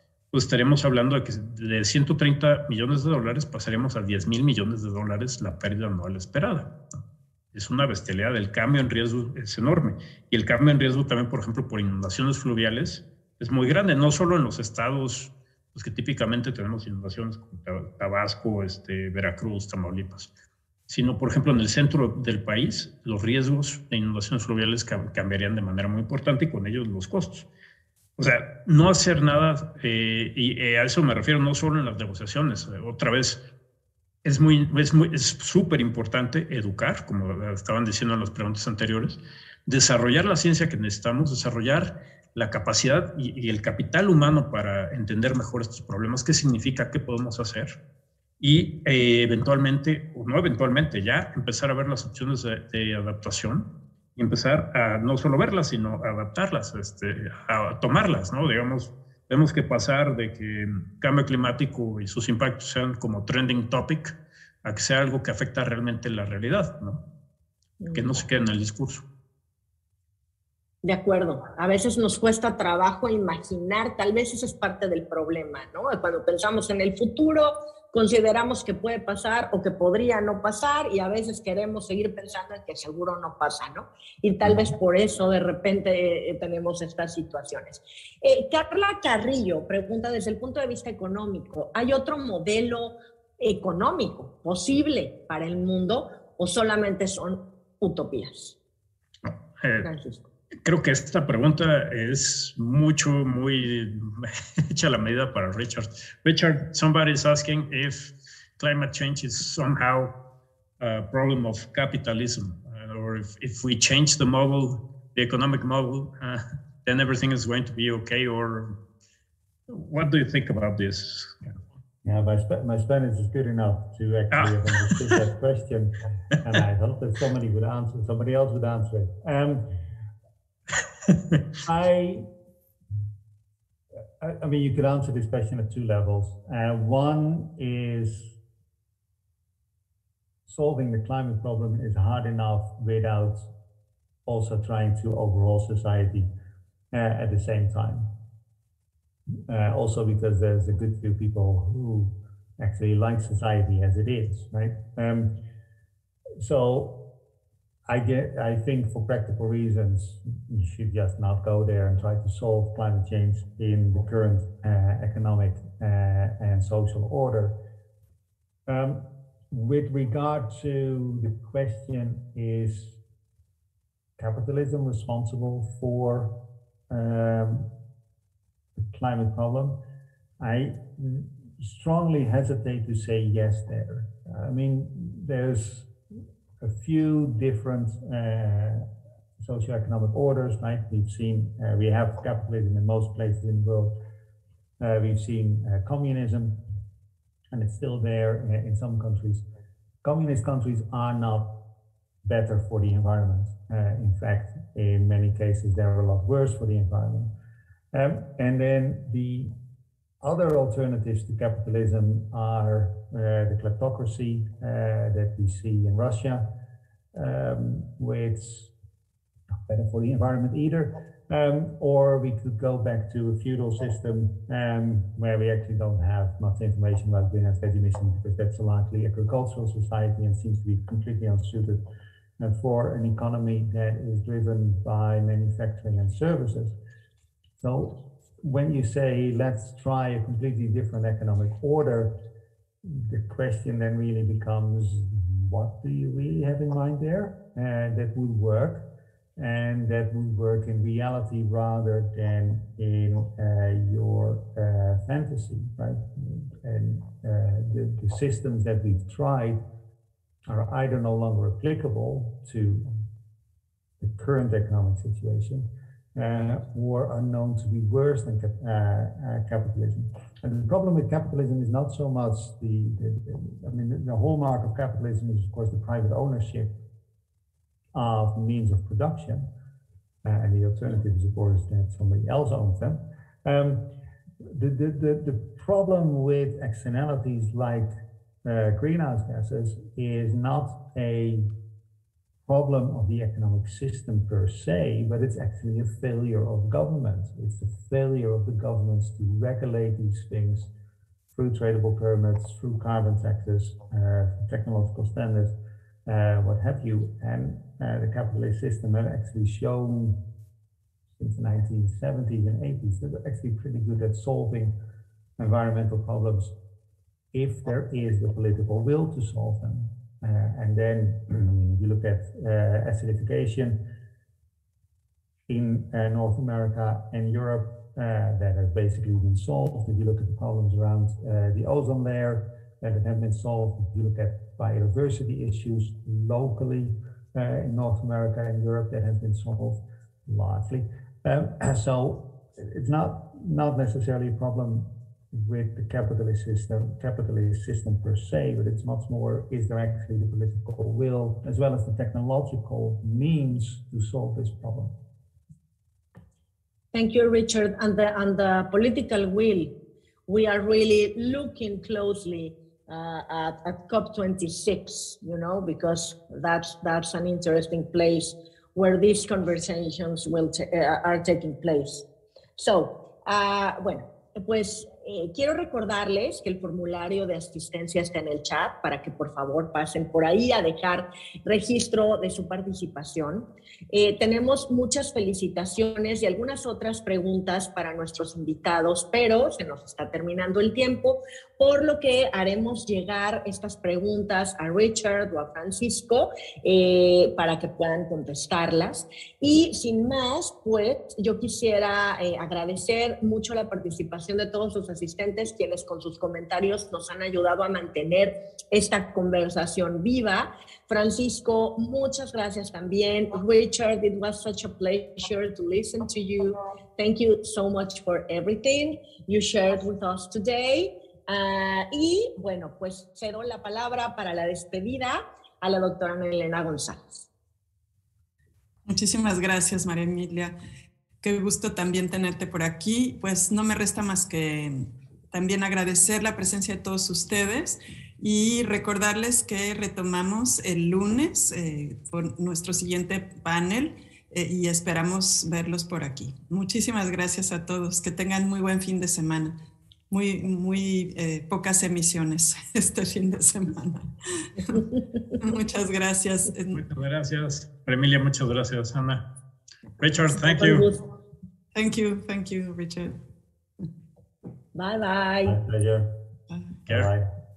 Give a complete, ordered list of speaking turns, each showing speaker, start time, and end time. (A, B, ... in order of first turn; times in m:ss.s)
0:00.3-0:07.0 A
0:07.5-0:20.3 A
0:20.9-0:27.5 A
0:28.2-0:33.4 A
0:34.2-0:47.8 A
0:48.4-1:07.0 A
1:07.9-1:09.0 A
1:10.8-1:38.6 B
1:39.2-1:39.9 A
1:39.8-1:40.2 B
1:40.6-1:50.1 A
1:50.8-1:58.8 A
1:59.7-2:01.6 A
2:02.0-2:09.6 C
2:04.3-2:05.1 A
2:11.1-2:11.4 A
2:11.6-2:12.3 C
2:14.2-2:18.3 C
2:20.5-2:23.4 C
2:24.3-2:26.3 C
2:26.9-2:28.1 C
2:29.5-2:35.4 C
2:36.4-2:37.0 C
2:37.9-2:47.6 C
2:48.7-2:53.0 C
2:54.2-2:56.3 C
2:56.9-2:57.7 C
2:58.8-2:59.8 C
3:00.4-3:05.9 C
3:06.6-3:08.8 C
3:09.4-3:13.9 C
3:14.8-3:16.6 C
3:17.5-3:19.4 C
3:20.0-3:21.5 C
3:22.2-3:27.3 C
3:27.9-3:29.5 C
3:30.2-3:36.4 C
3:37.1-3:38.7 C
3:39.7-3:51.8 C
3:52.4-3:56.8 C
3:57.6-4:02.1 C
4:02.8-4:08.8 C
4:09.4-4:19.6 C
4:20.5-4:22.9 C
4:24.0-4:36.7 C
4:37.9-4:39.5 C
4:40.2-4:43.8 C
4:44.4-4:47.9 C
4:48.4-4:51.5 C
4:52.5-5:00.7 C
5:01.3-5:05.5 C
5:06.1-5:10.2 C
5:11.2-5:14.7 C
5:15.4-5:16.5 C
5:17.3-5:23.8 C
5:25.5-5:54.9 C
5:56.9-5:59.7 B
6:00.3-6:12.1 B
6:12.6-7:07.3 B
7:08.9-7:10.6 D
7:11.2-7:29.6 D
7:30.1-7:34.9 D
7:35.4-7:36.8 D
7:36.7-7:39.2 A
7:40.0-7:40.9 A
7:40.5-7:41.0 B
7:41.8-7:43.2 D
7:44.7-7:45.6 B
7:45.5-7:46.1 C
7:46.5-7:46.8 D
7:46.9-7:47.3 C